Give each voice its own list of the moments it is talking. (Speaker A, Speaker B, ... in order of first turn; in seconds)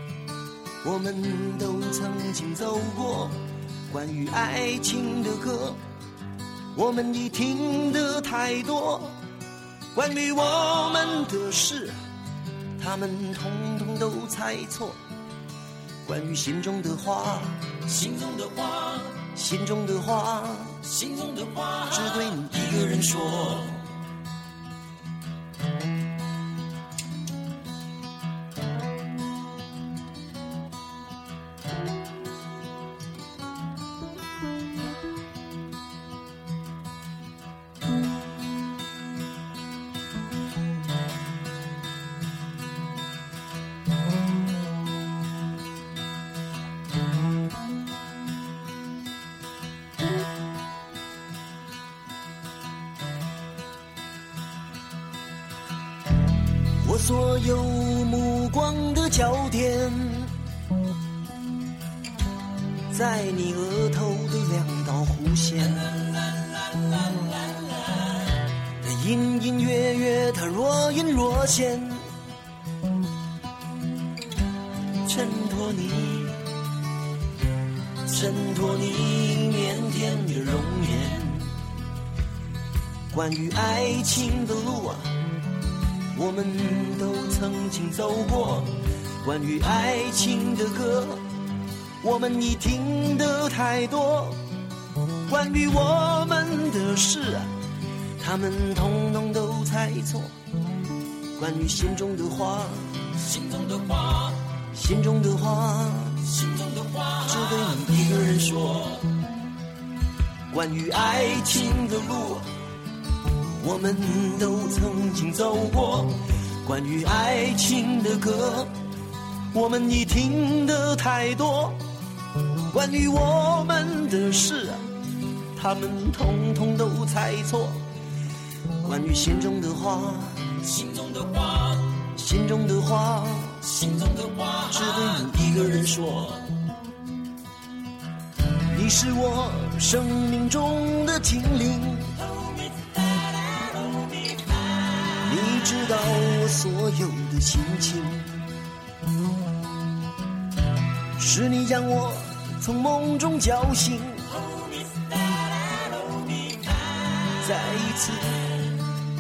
Speaker A: 0.8-5.8, 6.7-9.2, 9.9-11.9, 12.8-15.0, 16.0-23.9, 56.8-60.3, 62.9-66.1, 68.8-72.1, 75.0-76.4, 78.0-81.5, 83.1-85.1, 86.1-91.2, 92.0-94.4, 95.3-97.5, 98.2-100.3, 101.3-109.1, 110.5-112.5, 113.6-118.7, 119.5-121.8, 122.7-124.8, 125.5-127.8, 128.8-136.5, 138.7-142.3, 145.0-148.4, 151.2-154.6, 157.3-158.7